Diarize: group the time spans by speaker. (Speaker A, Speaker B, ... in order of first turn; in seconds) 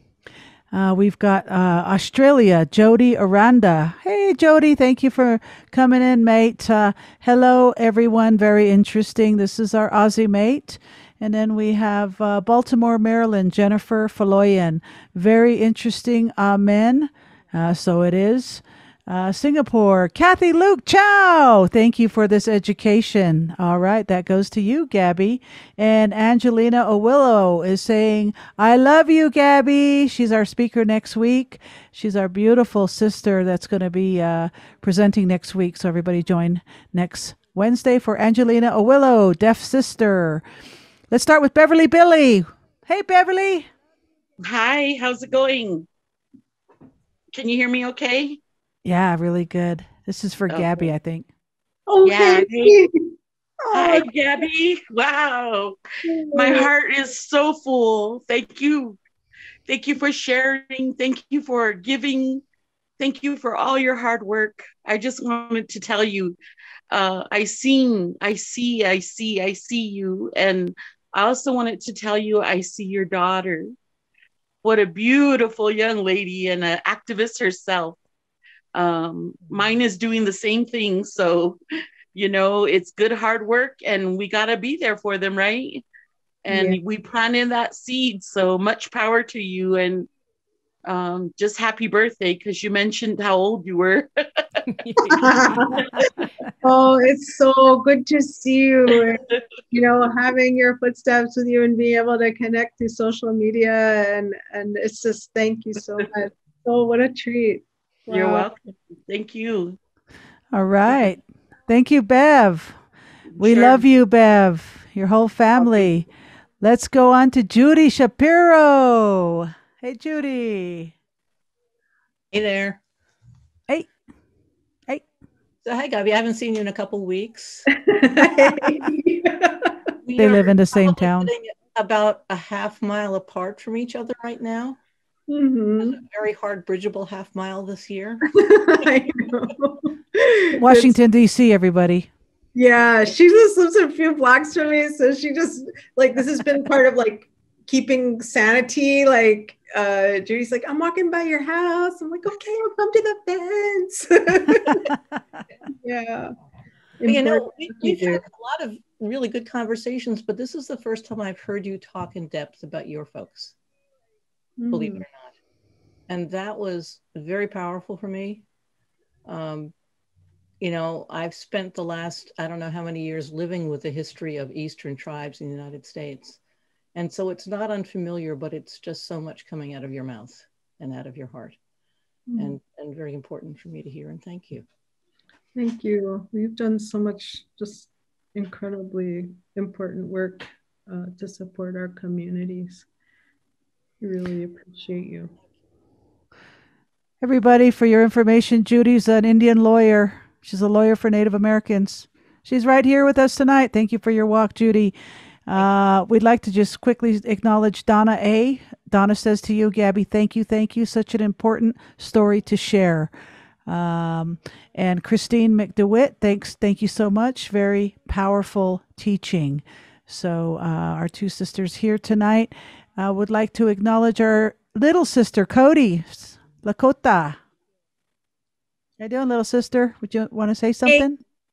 Speaker A: 0.7-40.4, 41.1-43.7, 48.8-51.3, 110.5-112.8, 113.4-116.1, 116.6-120.9, 130.2-131.3, 140.6-142.1, 197.2-204.9, 205.5-213.1, 213.7-227.4, 229.0-231.2
Speaker B: 44.4-45.9, 47.3-48.4, 50.5-50.9, 52.0-52.8, 53.7-55.8, 56.3-59.0, 59.7-62.4, 63.0-66.4, 66.9-73.8, 74.6-78.0, 78.8-81.6, 82.1-85.8, 86.5-90.1, 90.8-94.1, 94.9-95.2, 108.1-109.8, 113.3-113.8
Speaker C: 51.9-52.9, 53.6-54.1, 56.0-56.7, 86.5-86.8, 95.1-95.9, 96.6-108.5, 127.8-129.7, 135.3-136.0, 138.3-140.9, 142.6-154.9, 155.8-156.3, 157.0-158.2, 164.6-165.1, 182.3-182.6, 185.6-192.9, 194.0-195.3
Speaker D: 122.3-122.8, 125.6-128.8, 130.0-134.8, 135.8-138.3, 157.1-163.6, 164.7-165.3, 166.1-168.4, 169.3-169.7, 170.6-176.4, 176.9-181.6, 182.4-184.7